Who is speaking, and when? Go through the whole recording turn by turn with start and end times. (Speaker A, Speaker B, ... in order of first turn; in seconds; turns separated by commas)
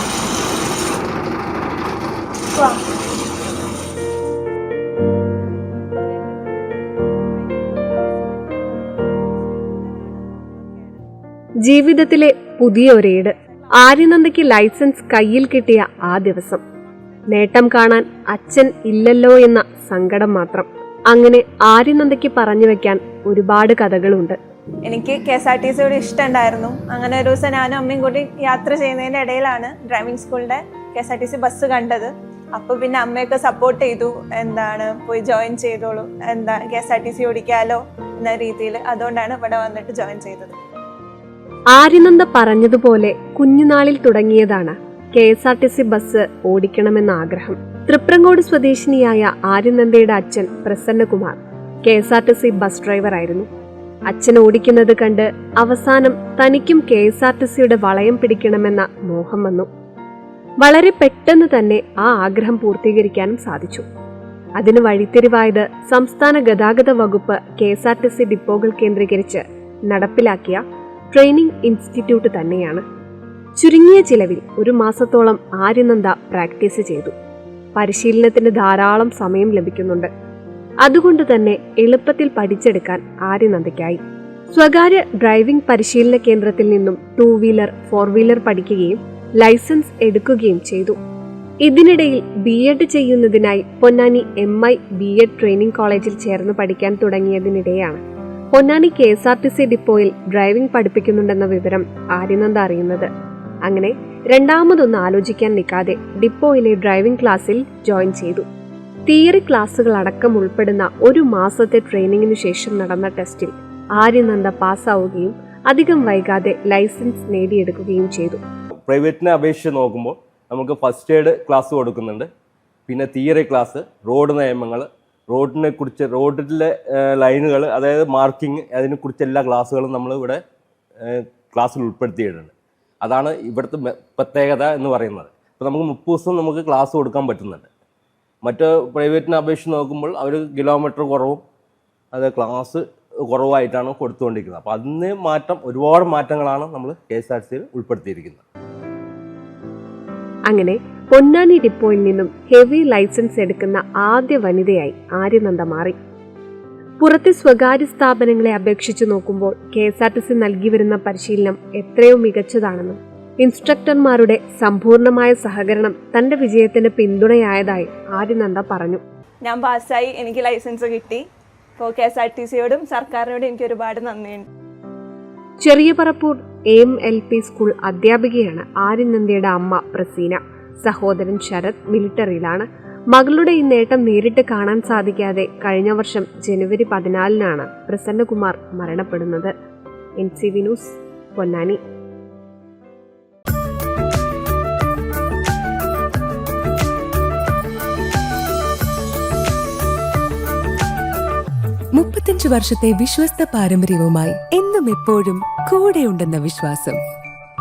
Speaker A: 2.5-2.8, Speaker A: 5.3-11.0, Speaker B: 11.6-16.6, Speaker A: 13.4-13.7, Speaker B: 17.3-24.4, Speaker A: 24.9-40.6, Speaker B: 41.7-53.5, Speaker B: 54.1-59.7, Speaker B: 60.6-63.8, Speaker B: 64.6-72.8, Speaker B: 73.6-77.1, Speaker B: 77.8-80.1, Speaker B: 80.8-84.0, Speaker B: 84.5-91.0, Speaker B: 91.6-98.0, Speaker B: 98.5-103.1, Speaker B: 103.6-108.5, Speaker B: 109.1-118.4, Speaker C: 118.9-122.3, Speaker C: 122.9-130.4, Speaker C: 131.0-132.5, Speaker C: 133.0-137.7, Speaker C: 138.4-141.4, Speaker C: 142.1-148.4, Speaker B: 150.5-156.0, Speaker B: 157.0-169.0, Speaker A: 169.4-171.2, Speaker A: 171.8-174.5, Speaker B: 175.6-189.5, Speaker B: 190.2-191.8, Speaker D: 201.9-207.0